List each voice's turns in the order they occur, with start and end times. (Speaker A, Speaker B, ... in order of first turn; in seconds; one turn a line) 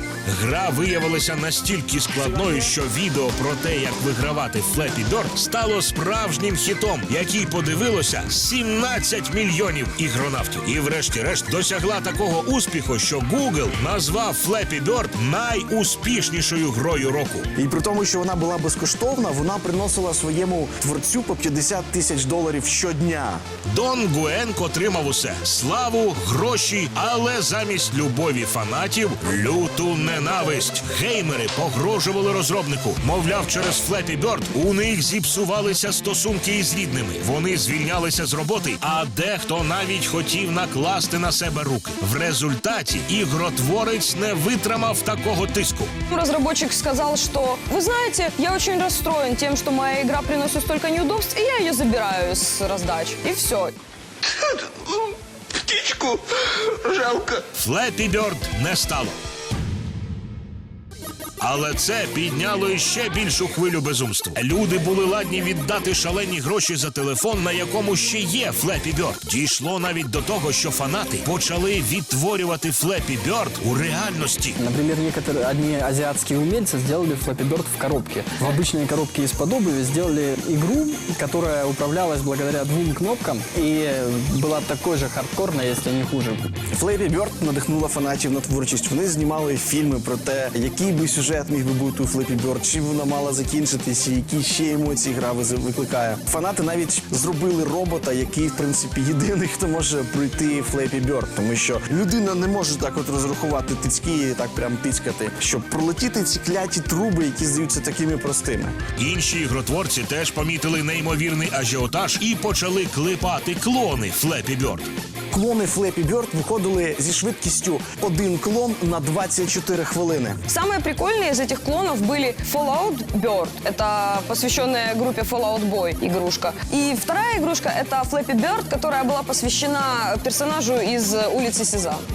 Speaker A: 0.2-17.5
Speaker B: 17.6-23.4
Speaker A: 23.7-45.9
Speaker C: 46.1-53.7
Speaker D: 54.2-57.5
Speaker A: 57.5-59.2
Speaker A: 61.4-74.5
Speaker E: 74.6-86.5
Speaker B: 86.7-108.8
Speaker A: 109.0-114.9
Speaker B: 115.3-120.4
Speaker C: 120.5-132.0